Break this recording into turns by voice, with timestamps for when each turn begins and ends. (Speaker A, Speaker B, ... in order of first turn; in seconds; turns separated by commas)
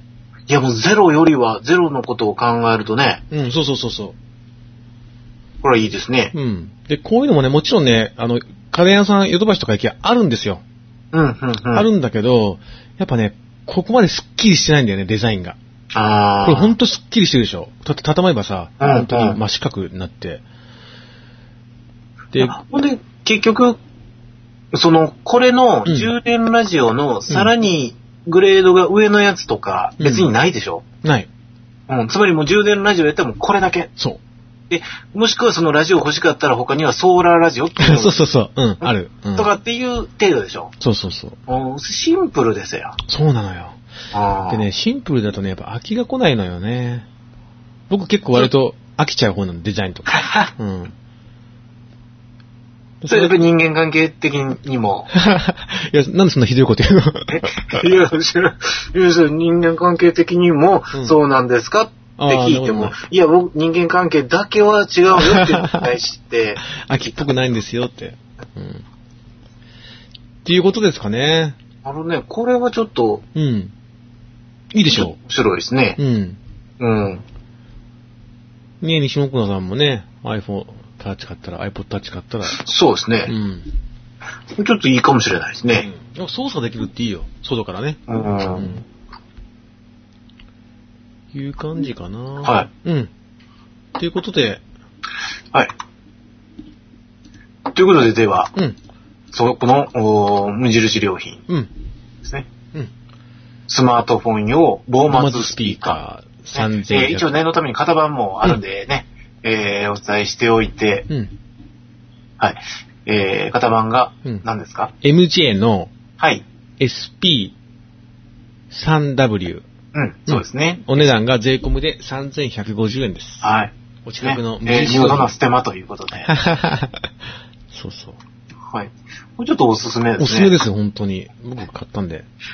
Speaker A: 0.5-3.2, Speaker B: 3.3-4.2, Speaker A: 5.6-6.3, Speaker B: 6.3-10.6, Speaker A: 11.1-11.9, Speaker B: 11.7-15.6, Speaker A: 15.9-16.7, Speaker B: 16.4-20.4, Speaker A: 18.8-19.4, Speaker A: 22.4-23.8, Speaker A: 24.7-30.8, Speaker B: 25.9-26.1, Speaker B: 30.0-30.3, Speaker B: 31.0-31.3, Speaker A: 31.9-33.9, Speaker A: 34.7-38.2, Speaker B: 37.8-39.5, Speaker A: 38.8-40.7, Speaker B: 40.8-41.4, Speaker A: 41.5-43.0, Speaker B: 43.0-43.8, Speaker A: 44.1-44.6, Speaker B: 44.5-47.1, Speaker B: 47.9-50.9, Speaker A: 50.1-50.5, Speaker B: 53.0-53.4, Speaker A: 53.1-55.1, Speaker B: 55.1-57.8, Speaker A: 57.3-67.2, Speaker B: 62.2-63.0, Speaker B: 65.1-65.9, Speaker B: 66.7-68.8, Speaker B: 70.4-71.6, Speaker A: 71.8-73.2, Speaker B: 73.3-73.7, Speaker B: 74.7-75.2, Speaker A: 74.9-76.0, Speaker B: 76.0-76.4, Speaker A: 76.8-77.2, Speaker B: 78.8-82.6, Speaker A: 82.5-83.3, Speaker B: 83.2-83.7, Speaker A: 84.5-85.9, Speaker B: 85.7-88.0, Speaker A: 88.1-88.8, Speaker B: 88.5-88.8, Speaker B: 91.3-93.1, Speaker A: 92.4-92.7, Speaker B: 94.0-94.6, Speaker A: 97.7-98.5, Speaker A: 99.3-101.4, Speaker A: 103.7-106.0, Speaker B: 105.1-107.3, Speaker A: 106.5-111.1, Speaker A: 112.4-114.9, Speaker B: 115.0-115.9, Speaker A: 116.2-116.4, Speaker B: 116.8-117.5, Speaker B: 118.7-119.6, Speaker A: 119.9-120.8, Speaker B: 120.3-123.5, Speaker A: 123.4-126.3, Speaker B: 124.0-125.3, Speaker B: 126.3-127.1, Speaker B: 127.7-128.2, Speaker A: 128.7-130.6, Speaker B: 130.2-132.3